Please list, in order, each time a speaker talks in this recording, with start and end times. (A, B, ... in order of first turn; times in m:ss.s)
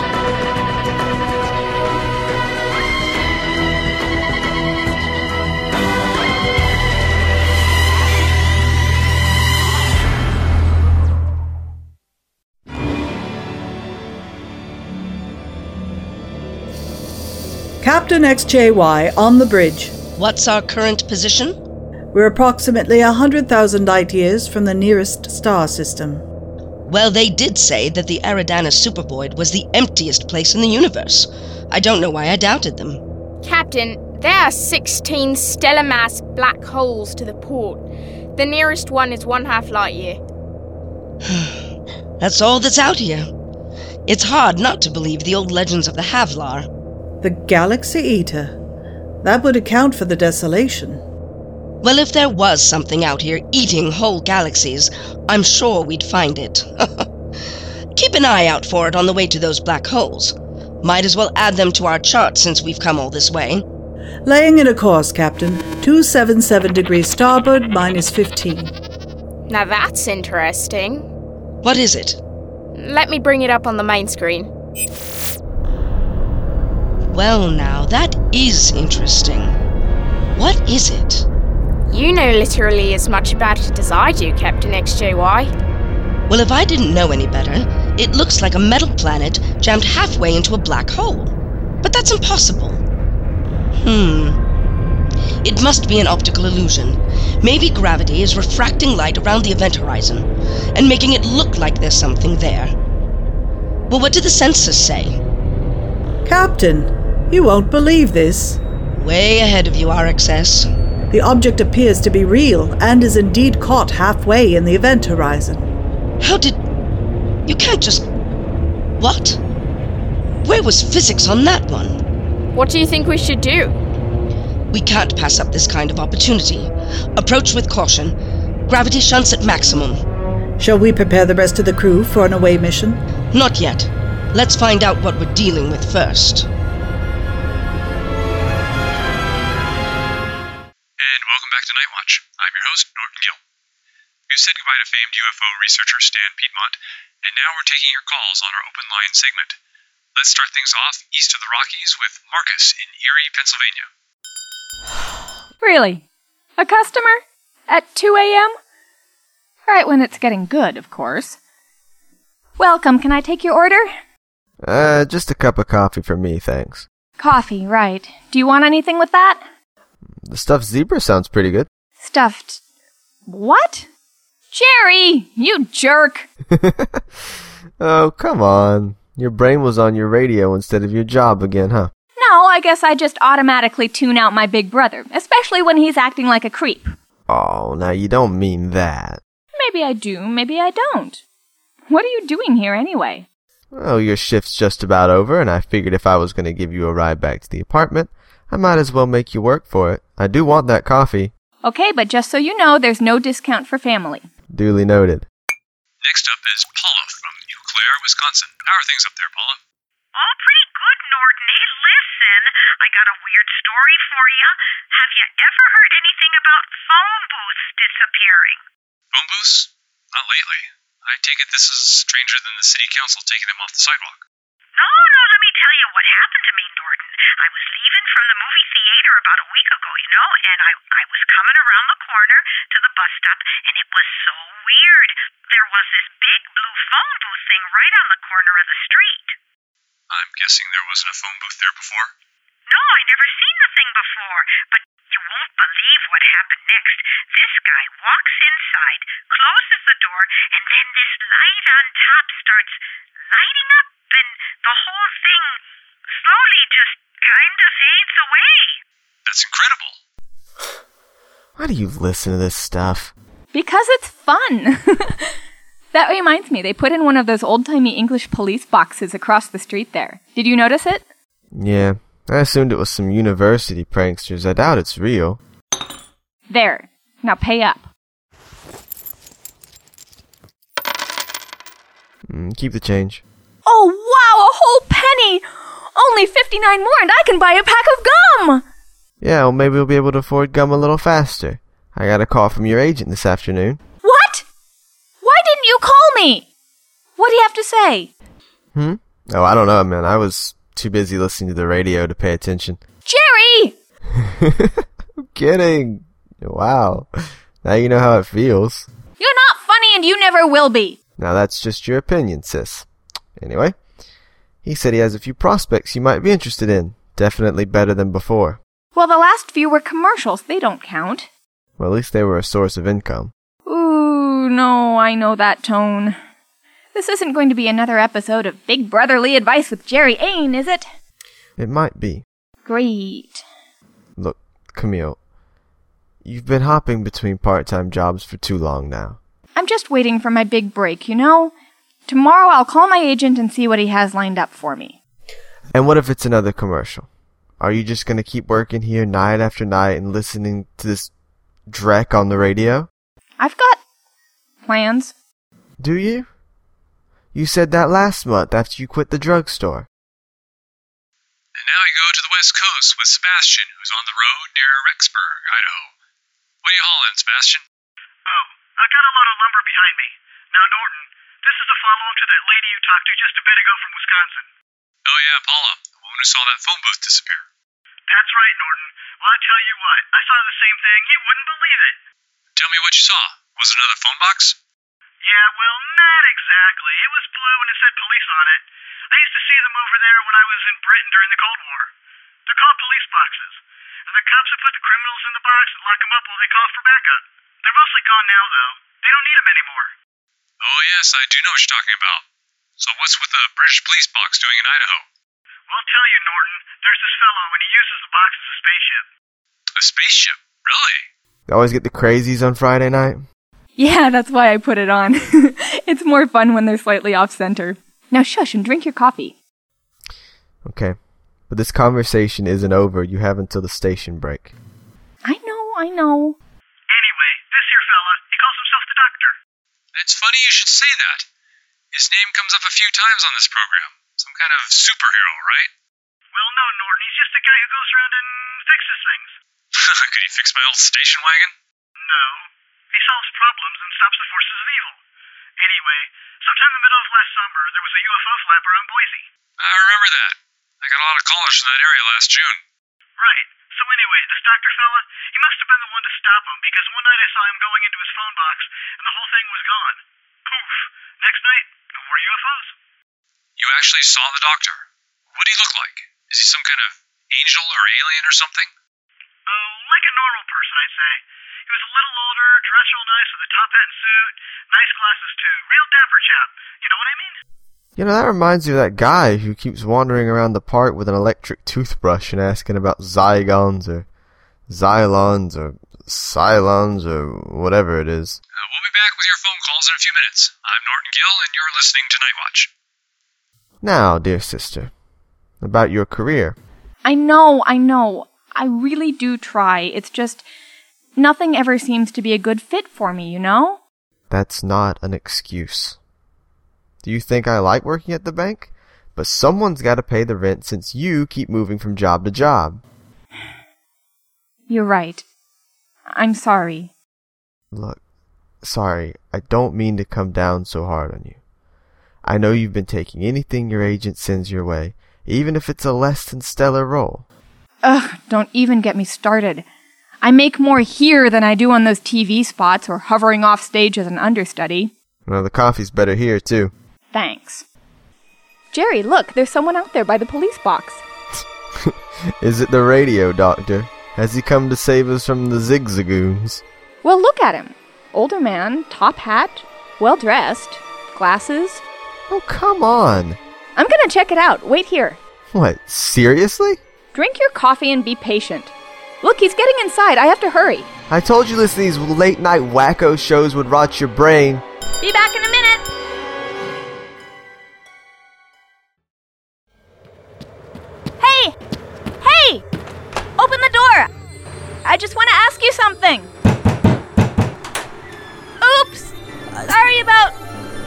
0:17.8-0:20.0 A
0:20.2-0:21.6 B
0:22.1-0:26.2 A
0:26.9-0:33.0 B
0:33.4-0:37.8 C
0:38.4-0:40.2 C
0:41.2-0:41.6 B
0:42.2-0:43.3 B
0:44.1-0:46.7 B
0:47.2-0:48.5 A
0:49.2-0:51.0 A
0:51.8-0:57.1 B
0:58.0-1:03.6 B
1:04.2-1:08.7 A
1:09.5-1:11.1 C
1:11.6-1:12.2 B
1:12.8-1:14.5 C
1:17.1-1:19.6 B
1:20.4-1:21.2 B
1:21.9-1:25.5 C
1:26.3-1:32.8 B
1:33.8-1:34.4 B
1:35.4-1:42.7 B
1:43.9-1:45.2 B
1:46.2-1:48.6 A
1:49.0-1:50.7 B
1:51.1-1:55.7 A
1:56.2-1:56.6 B
1:57.5-1:58.1 B
1:59.0-1:59.4 B
2:00.4-2:02.0 B
2:02.6-2:03.8 C
2:04.7-2:08.2 B
2:08.7-2:10.0 B
2:10.6-2:13.0 A
2:13.3-2:16.5 B
2:21.0-2:23.4 D
2:24.3-2:29.6 D
2:30.2-2:33.9 D
2:35.6-2:36.0 E
2:36.6-2:38.6 E
2:39.7-2:41.4 E
2:42.6-2:43.9 E
2:44.6-2:46.9 F
2:47.2-2:49.4 E
2:50.2-2:51.7 F
2:52.0-2:52.6 E
2:53.3-2:53.9 E
2:54.5-2:56.3 E
2:56.5-2:57.0 F
2:57.8-3:01.9 F
3:02.2-3:06.9 E
3:07.3-3:09.2 F
3:09.6-3:11.2 E
3:11.9-3:13.3 E
3:13.7-3:21.3 F
3:21.6-3:24.3 E
3:24.5-3:25.2 F
3:26.0-3:29.6 D
3:30.1-3:38.6 G
3:39.1-3:44.2 D
3:44.7-3:59.4 G
4:00.1-4:02.1 D
4:02.7-4:18.8 G
4:19.2-4:20.0 D
4:21.6-4:23.1 F
4:23.5-4:25.4 E
4:25.9-4:31.0 E
4:31.5-4:35.4 F
4:36.5-4:37.9 E
4:42.3-4:43.2 F
4:43.7-4:48.6 E
4:49.2-4:53.8 F
4:54.0-4:54.4 E
4:55.2-4:56.5 E
4:57.2-4:58.1 E
4:58.7-5:02.8 F
5:03.1-5:03.8 E
5:04.2-5:07.1 F
5:07.6-5:08.9 F
5:09.2-5:11.0 E
5:11.2-5:12.9 F
5:13.4-5:13.8 F
5:14.6-5:18.6 F
5:19.0-5:21.3 E
5:21.8-5:23.3 F
5:23.7-5:26.2 E
5:26.9-5:30.9 E
5:31.6-5:32.2 F
5:32.6-5:33.4 E
5:34.2-5:35.2 F
5:36.2-5:39.2 F
5:39.6-5:41.5 E
5:42.1-5:45.0 E
5:45.7-5:47.1 F
5:47.6-5:51.1 F
5:51.7-5:52.9 F
5:53.4-5:53.8 E
5:54.6-5:55.1 E
5:55.8-5:56.3 F
5:57.3-5:59.9 F
6:01.6-6:05.9 D
6:06.6-6:07.6 D
6:08.2-6:14.5 H
6:15.0-6:17.5 D
6:18.1-6:22.0 H
6:22.6-6:24.6 D
6:25.2-6:31.9 H
6:32.5-6:40.0 H
6:40.6-6:42.2 D
6:42.8-6:45.1 D
6:45.7-6:49.1 H
6:49.8-6:51.1 D
6:51.5-6:53.2 F
6:53.8-6:59.4 E
7:00.6-7:01.0 F
7:01.5-7:04.5 F
7:05.2-7:06.4 E
7:06.9-7:09.4 H
7:09.9-7:11.3 D
7:11.9-7:15.7 D
7:16.3-7:19.4 H
7:19.7-7:21.6 D
7:22.0-7:25.0 H
7:25.6-7:29.3 H
7:29.6-7:32.6 D
7:33.2-7:42.8 H
7:43.6-7:48.7 D
7:49.5-7:57.4 H
7:58.0-8:04.1 F
8:04.7-8:08.4 F
8:08.6-8:12.7 D
8:13.8-8:14.9 F
8:15.6-8:16.6 F
8:17.0-8:20.4 E
8:21.2-8:23.8 E
8:24.3-8:26.0 F
8:27.0-8:32.8 F
8:34.7-8:35.2 E
8:36.1-8:36.9 E
8:37.7-8:38.0 F
8:38.6-8:41.4 F
8:42.2-8:47.3 F
8:47.8-8:49.6 E
8:50.2-8:54.9 E
8:55.3-8:56.7 F
8:57.1-8:57.6 E
8:58.7-9:01.0 E
9:01.8-9:06.6 F
9:07.0-9:11.8 E
9:12.3-9:13.4 F
9:13.8-9:15.2 E
9:15.5-9:16.8 F
9:17.1-9:20.9 E
9:21.1-9:24.6 F
9:25.0-9:25.9 E
9:31.2-9:31.6 E
9:32.2-9:32.6 E
9:33.4-9:34.1 E
9:34.8-9:36.3 E
9:38.6-9:40.4 E